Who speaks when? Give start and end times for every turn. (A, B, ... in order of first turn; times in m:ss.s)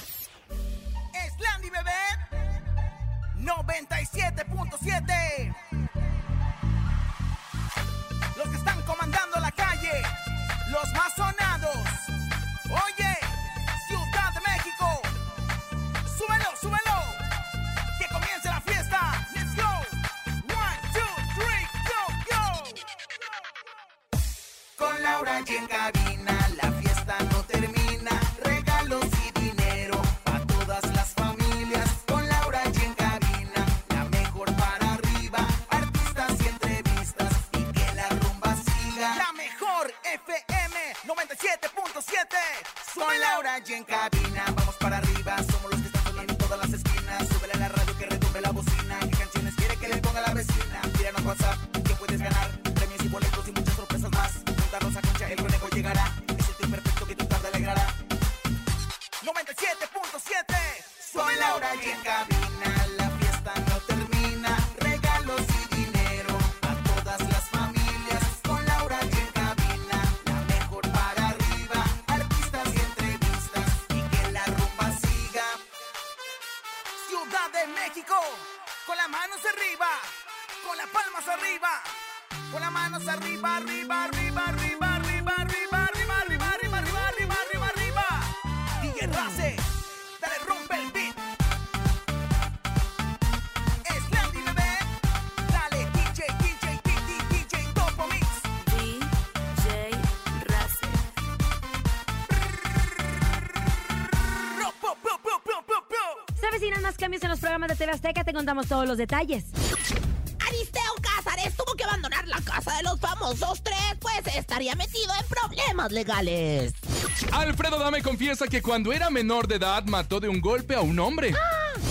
0:01.1-0:02.2 A
0:03.4-0:05.6 A
0:08.4-0:10.1 A
0:10.7-0:12.1 A
0:12.7-0:15.1 A
0:16.1-0:17.2 A
0:18.0-0:22.8 A
0:24.8-0:58.0 A
0:59.2-1:15.6 A
1:17.0-1:20.1 A
1:20.6-1:21.9 A
1:22.5-1:28.3 A
1:28.8-1:29.6 A
1:30.2-1:31.2 A
1:33.8-1:34.9 A
1:35.5-1:38.5 A
1:38.6-1:41.0 B
1:44.5-1:46.0 A
1:46.4-1:49.5 C
1:50.4-1:56.8 D
1:57.3-2:01.4 E